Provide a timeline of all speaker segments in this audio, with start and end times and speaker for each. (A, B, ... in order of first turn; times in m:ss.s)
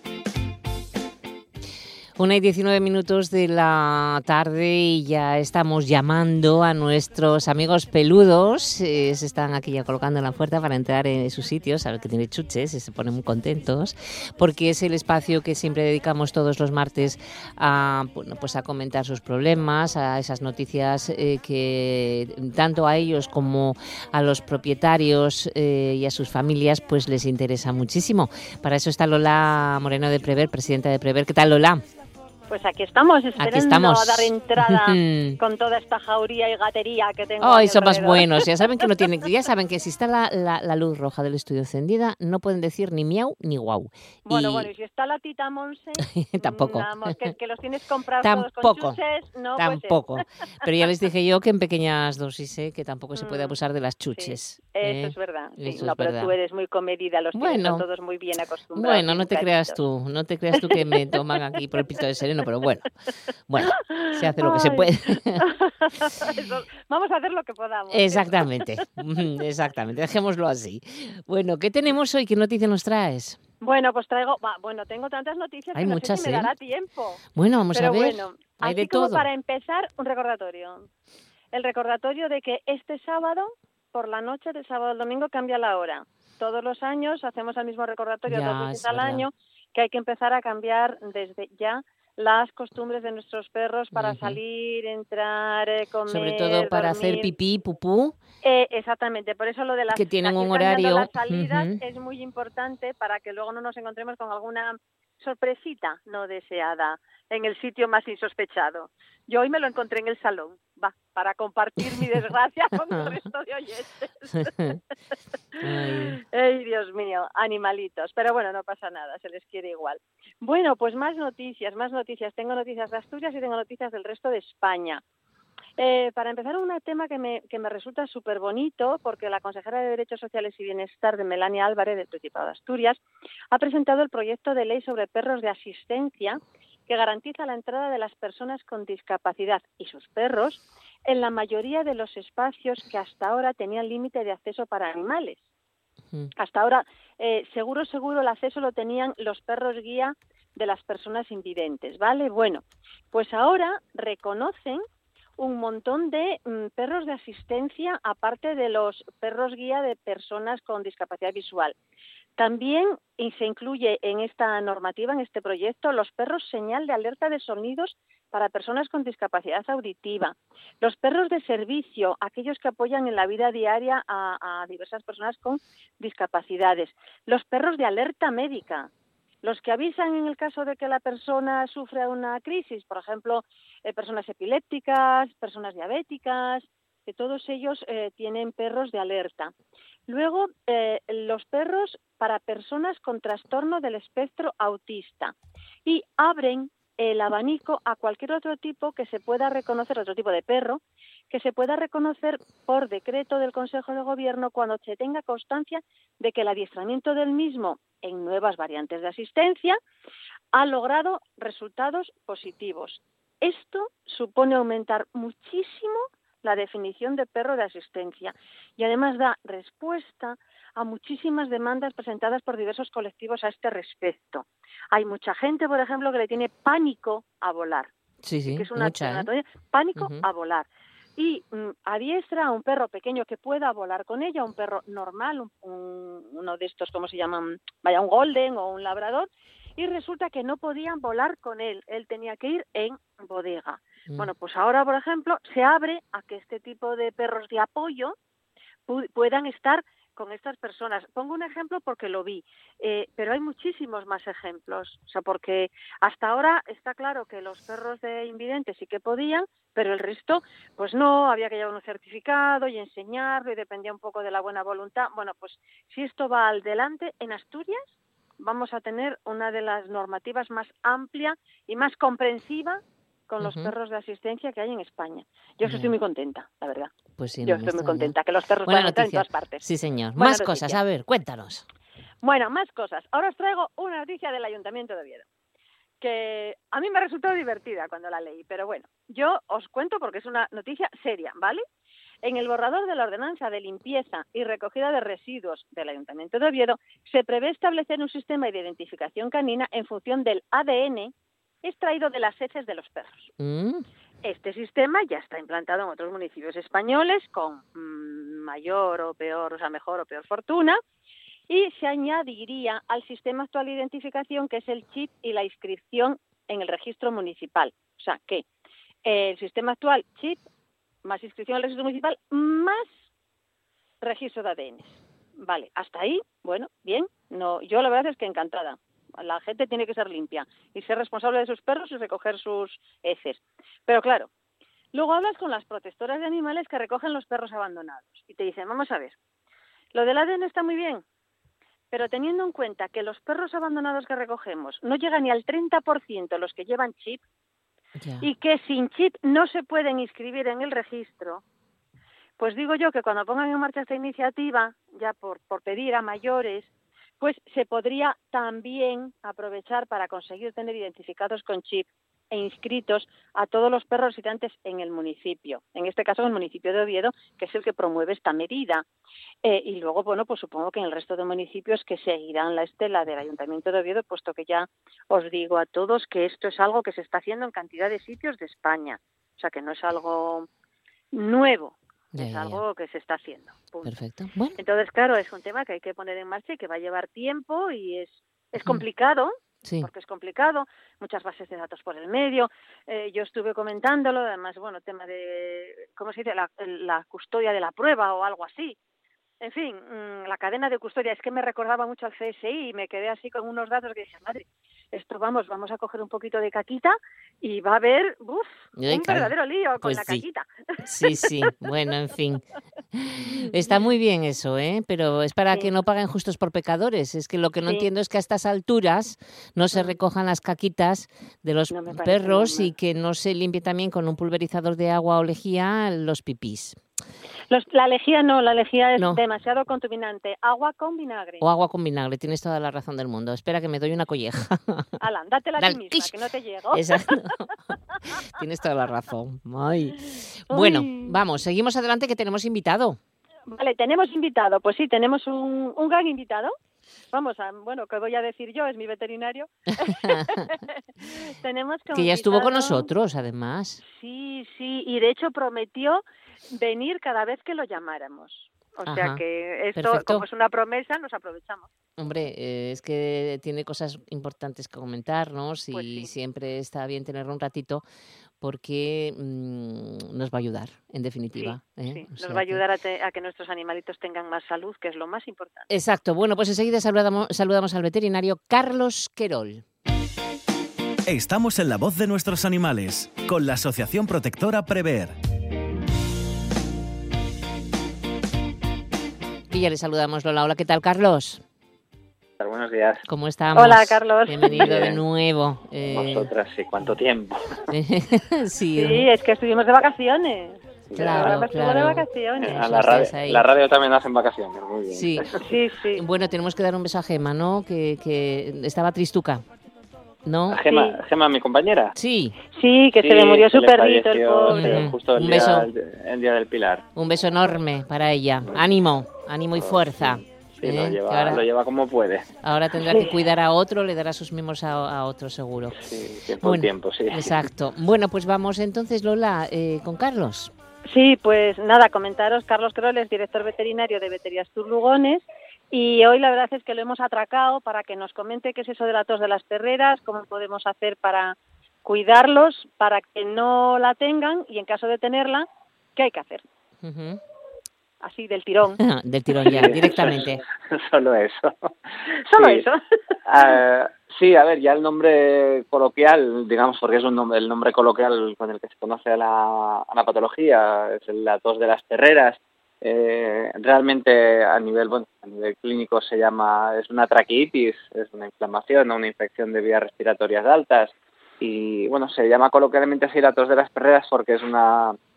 0:02.2-0:31.8 A
0:32.5-0:38.5 B
0:33.4-0:35.4 A
0:37.4-0:44.7 A
0:44.3-0:50.7 B
0:46.2-0:47.3 A
0:48.2-0:49.0 A
0:49.6-0:56.3 A
0:53.2-0:53.6 B
0:54.2-0:59.8 B
0:57.4-0:57.8 A
0:58.8-1:02.9 A
1:00.5-1:01.0 B
1:03.5-1:05.4 A
1:03.6-1:08.7 B
1:07.9-1:13.4 A
1:13.6-1:20.9 B
1:15.8-1:16.5 A
1:17.4-1:19.3 A
1:21.5-1:37.3 B
1:28.3-1:29.3 A
1:33.9-1:34.4 A
1:36.1-1:38.2 A
1:38.4-1:54.8 B
1:39.9-1:41.8 A
1:55.6-2:05.0 B
1:55.6-1:56.2 A
2:05.8-2:13.0 B
2:13.5-2:25.4 B
2:26.4-2:34.8 B
2:35.4-2:41.8 B
2:42.4-2:58.9 B
2:59.4-3:09.5 B
3:10.1-3:15.3 B
3:15.8-3:29.8 B
3:30.5-3:47.9 B
3:48.2-3:49.3 A
3:48.5-4:08.1 B
3:50.0-3:50.2 A
4:08.9-4:27.8 B
4:28.4-4:36.9 B
4:33.4-4:33.7 A
4:35.6-4:35.9 A
4:37.2-4:38.2 A
4:37.4-4:39.6 B
4:38.7-4:41.7 A
4:40.2-4:40.8 B
4:42.2-4:45.3 B
4:46.0-4:51.6 B
4:52.2-5:03.3 B
5:03.4-5:03.8 A
5:04.2-5:10.8 B
5:11.5-5:18.4 B
5:19.0-5:20.4 B
5:21.0-5:22.9 B
5:24.0-5:34.3 B
5:34.9-5:39.2 B
5:39.9-5:41.0 B
5:41.9-5:47.2 B
5:48.0-5:48.3 A
5:48.2-5:51.4 B
5:52.4-5:56.7 B
5:57.2-6:08.8 B
6:09.4-6:20.5 B
6:21.1-6:23.9 B
6:22.1-6:22.6 A
6:23.8-6:24.6 A
6:24.6-6:38.8 B
6:29.6-6:29.9 A
6:39.4-6:50.5 B
6:48.8-6:50.2 A
6:50.8-7:06.8 A
6:51.1-6:51.7 B
7:01.7-7:02.7 B
7:07.5-7:11.4 B
7:11.4-7:14.9 A
7:15.0-7:17.2 B
7:15.6-7:16.1 A
7:16.7-7:17.4 A
7:18.3-7:23.0 A
7:20.5-7:21.2 B
7:23.5-7:26.5 B
7:27.1-7:32.9 B
7:29.8-7:30.4 A
7:31.9-7:33.8 A
7:33.9-7:41.7 B
7:38.9-7:39.2 A
7:39.8-7:40.2 A
7:42.0-7:47.8 A
7:45.7-7:46.1 B
7:48.4-7:52.6 A
7:51.4-7:55.7 B
7:55.7-7:59.6 A
8:01.1-8:05.1 C
8:09.5-8:11.4 A
8:12.4-8:13.0 D
8:13.1-8:16.3 A
8:13.6-8:15.0 B
8:14.5-8:15.0 D
8:15.9-8:17.7 D
8:17.7-8:19.1 A
8:18.8-8:22.6 B
8:20.9-8:21.4 D
8:21.0-8:23.4 A
8:22.4-8:25.4 D
8:24.9-8:25.3 A
8:25.4-8:26.0 B
8:26.0-8:29.4 A
8:30.2-8:30.6 A
8:30.5-8:32.0 D
8:30.7-8:31.0 B
8:32.0-8:32.4 A
8:32.6-8:34.9 B
8:33.0-8:36.9 D
8:34.5-8:35.7 A
8:37.0-8:41.4 A
8:39.6-8:42.3 D
8:42.4-8:45.8 A
8:42.8-8:43.1 B
8:45.8-8:47.4 D
8:46.4-8:50.5 A
8:50.9-9:06.4 B
9:06.8-9:07.2 A
9:08.0-9:08.8 B
9:08.8-9:10.4 A
9:09.4-9:11.7 D
9:12.3-9:12.8 B
9:12.3-9:12.7 D
9:13.3-9:35.0 D